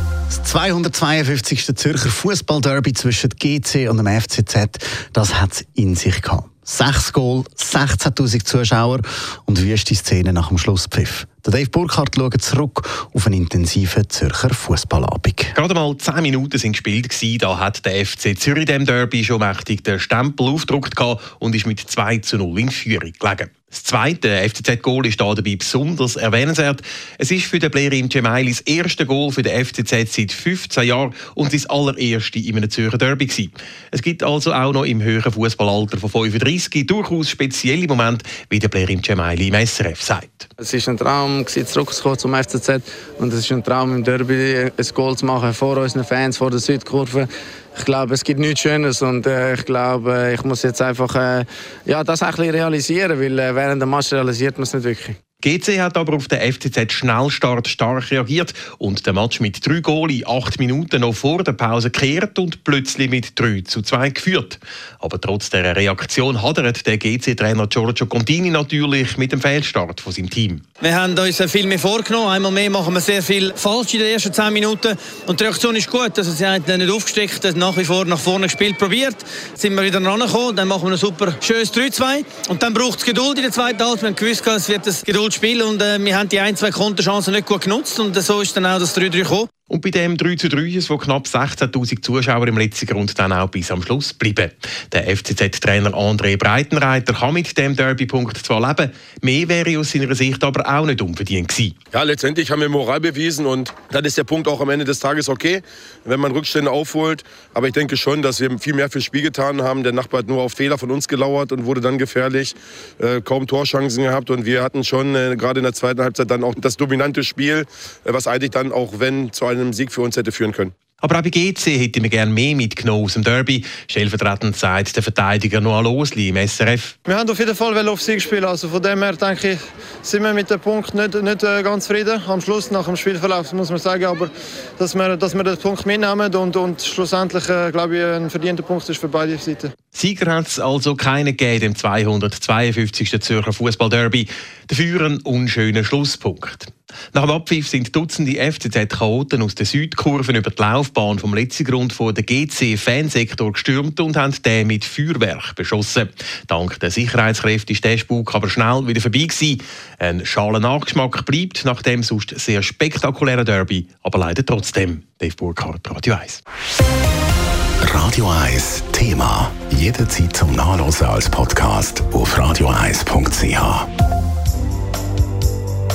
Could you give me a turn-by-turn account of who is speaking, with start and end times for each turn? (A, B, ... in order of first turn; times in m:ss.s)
0:00.3-0:15.5 A
0:15.5-0:40.5 B
0:40.6-0:55.2 C
0:55.4-1:10.6 B
1:10.8-1:29.5 D
1:29.7-1:41.7 B
1:41.9-2:00.7 E
2:01.0-2:07.0 B
2:07.0-2:19.7 F
2:19.9-2:46.4 B
2:47.8-2:53.9 G